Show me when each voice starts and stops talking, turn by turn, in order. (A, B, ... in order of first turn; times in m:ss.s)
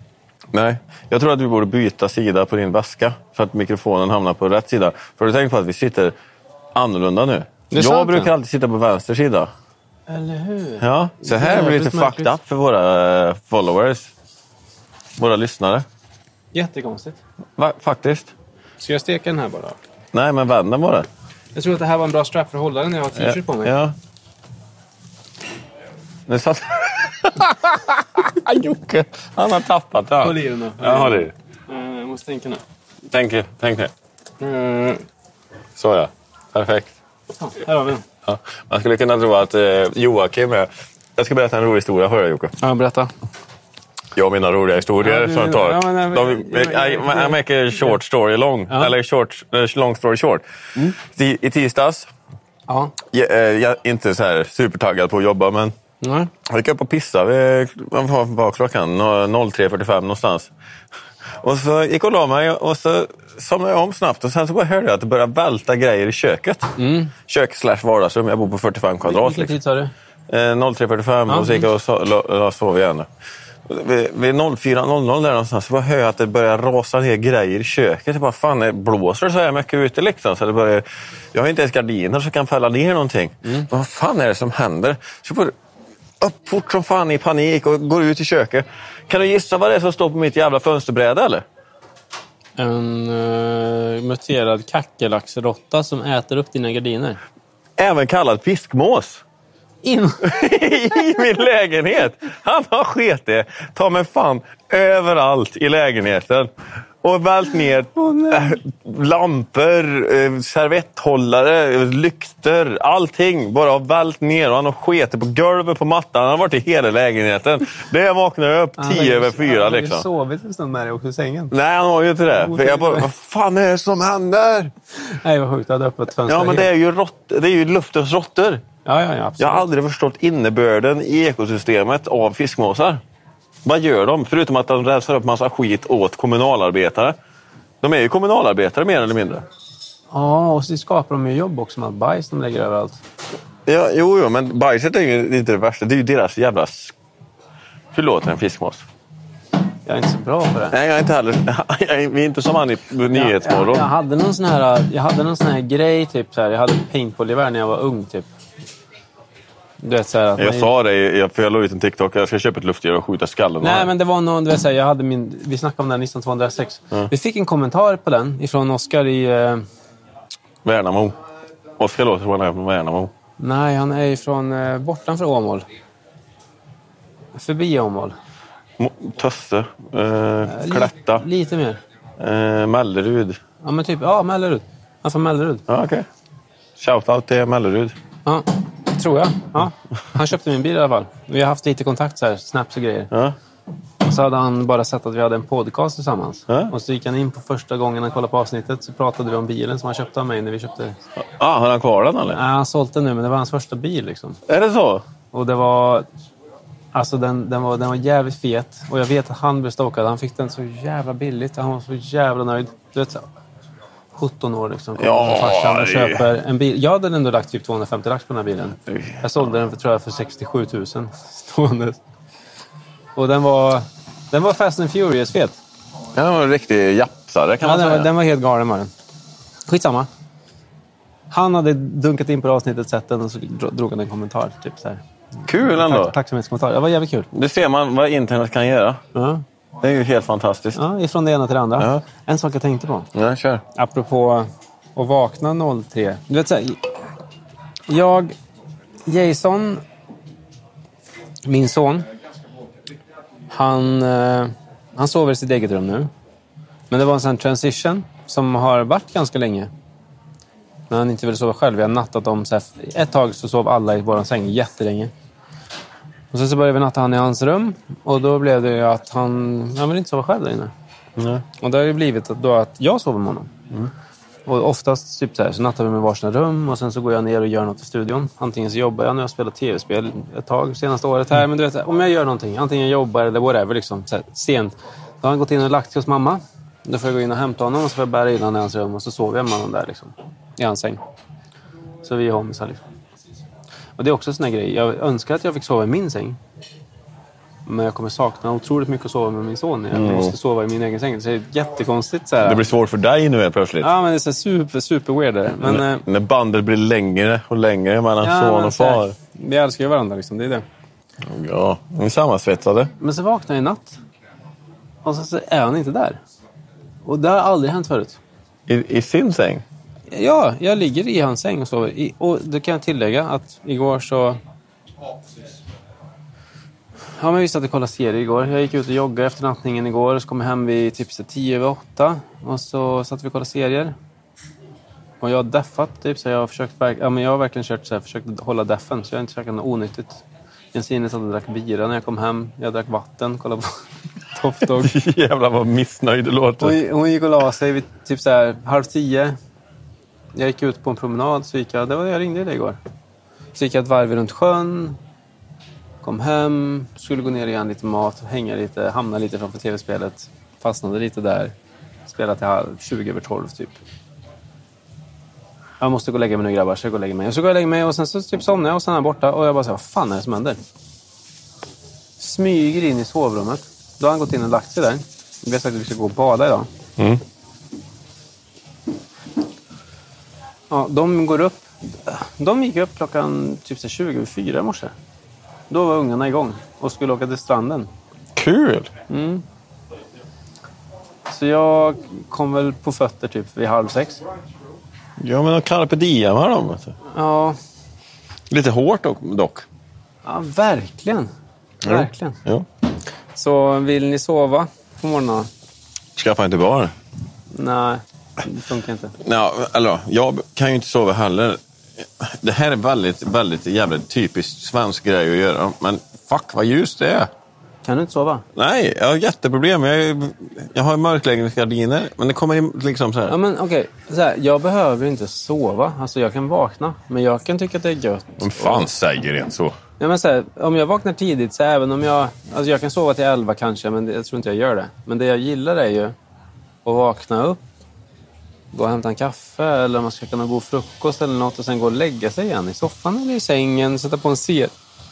0:00.5-0:06.1 A
0:06.8-0:09.5 A
0:07.7-0:08.3 B
0:10.1-0:12.3 B
0:10.8-0:14.1 A
0:15.2-0:15.8 A
0:16.5-0:17.2 B
0:17.6-0:18.3 A
0:18.8-0:19.8 B
0:20.1-0:21.1 A
0:21.6-0:23.7 B
0:23.2-0:24.0 A
0:26.3-0:31.3 A
0:30.2-0:32.6 B
0:33.1-0:33.9 A
0:34.4-0:35.0 B
0:35.8-0:37.0 A
0:37.4-0:38.0 B
0:38.2-0:42.5 A
0:42.6-0:43.1 B
0:44.2-0:52.1 A
0:45.0-0:47.9 B
0:48.7-0:48.9 B
0:52.7-0:52.9 B
0:53.1-0:55.7 A
0:56.0-0:56.3 B
0:56.5-1:00.5 A
1:01.4-1:06.7 A
1:06.8-1:07.2 B
1:07.3-1:09.6 A
1:09.1-1:09.9 B
1:10.3-1:13.1 A
1:11.3-1:11.7 B
1:13.7-1:25.5 A
1:26.2-1:31.4 A
1:32.6-1:37.2 B
1:37.8-1:39.2 A
1:39.8-1:40.3 B
1:40.2-1:46.5 A
1:47.0-2:00.1 A
1:48.0-1:48.5 B
1:58.8-2:01.5 B
2:01.5-2:04.7 A
2:02.3-2:03.1 B
2:05.0-2:06.7 B
2:06.3-2:08.6 A
2:08.8-2:09.6 B
2:09.4-2:13.0 A
2:13.6-2:17.2 A
2:17.8-2:19.5 A
2:20.1-2:23.0 B
2:23.7-2:27.0 A
2:27.9-2:28.8 A
2:29.9-2:30.8 B
2:30.7-2:33.9 A
2:33.1-2:38.3 B
2:39.8-2:40.7 B
2:40.4-2:43.9 A
2:43.6-2:49.6 B
2:50.6-2:51.2 A
2:51.8-2:53.1 A
2:53.4-2:55.7 B
2:57.4-2:58.2 B
2:58.8-3:01.2 A
3:00.4-3:01.8 B
3:02.2-3:03.4 A
3:03.6-3:05.6 B
3:05.7-3:06.1 A
3:06.8-3:08.0 A
3:08.3-3:13.1 B
3:14.0-3:21.0 B
3:16.5-3:16.7 A
3:21.2-3:22.4 A
3:22.3-3:24.4 B
3:24.5-3:25.0 A
3:25.3-3:26.1 B
3:26.9-3:33.2 B
3:34.2-3:42.0 B
3:35.0-3:36.3 A
3:38.9-3:39.5 A
3:43.2-3:45.6 B
3:46.1-3:48.1 A
3:47.6-3:48.9 B
3:49.7-3:50.1 B
3:51.3-3:55.0 B
3:55.4-3:56.1 A
3:55.6-3:57.3 B
3:57.3-3:59.0 A
3:59.2-3:59.4 B
3:59.8-4:00.8 A
4:00.8-4:03.1 B
4:01.8-4:02.0 A
4:03.1-4:03.6 A
4:03.8-4:06.9 B
4:07.9-4:08.4 B
4:09.1-4:09.8 B
4:11.4-4:12.1 B
4:13.5-4:16.1 B
4:16.9-4:19.7 B
4:20.9-4:25.1 B
4:26.3-4:30.7 B
4:31.2-4:31.4 A
4:31.6-4:33.5 B
4:34.5-4:51.0 B
4:52.0-4:52.8 B
4:54.0-4:56.4 B
4:57.7-5:02.6 B
4:59.9-5:00.4 A
5:02.4-5:03.9 A
5:03.8-5:06.0 B
5:05.6-5:09.2 A
5:08.2-5:10.6 B
5:11.2-5:12.9 A
5:13.0-5:14.0 B
5:15.0-5:16.2 B
5:17.0-5:18.2 B
5:18.7-5:19.6 A
5:20.1-5:24.4 B
5:27.2-5:34.0 B
5:35.2-5:40.2 B
5:40.7-5:43.8 B
5:44.3-5:44.9 B
5:44.7-5:46.8 A
5:46.6-5:49.4 B
5:50.3-5:52.8 B
5:53.6-5:55.0 B
5:56.0-6:01.5 B
6:02.1-6:03.8 B
6:05.8-6:10.6 B
6:12.2-6:16.7 B
6:20.7-6:24.9 B
6:25.7-6:27.9 B
6:28.4-6:28.9 A
6:29.1-6:29.4 B
6:31.3-6:34.2 B
6:35.2-6:37.0 A
6:37.1-6:37.6 B
6:38.5-6:39.7 A
6:40.2-6:41.3 B
6:41.8-6:42.4 B
6:41.8-6:42.7 A
6:43.4-6:45.5 B
6:46.2-6:46.9 A
6:47.5-6:49.2 B
6:49.2-6:57.3 A
6:57.8-6:58.4 B
6:58.6-7:03.4 A
7:03.3-7:08.9 B
7:08.4-7:09.8 A
7:10.0-7:16.2 B
7:16.8-7:17.6 B
7:18.7-7:24.7 B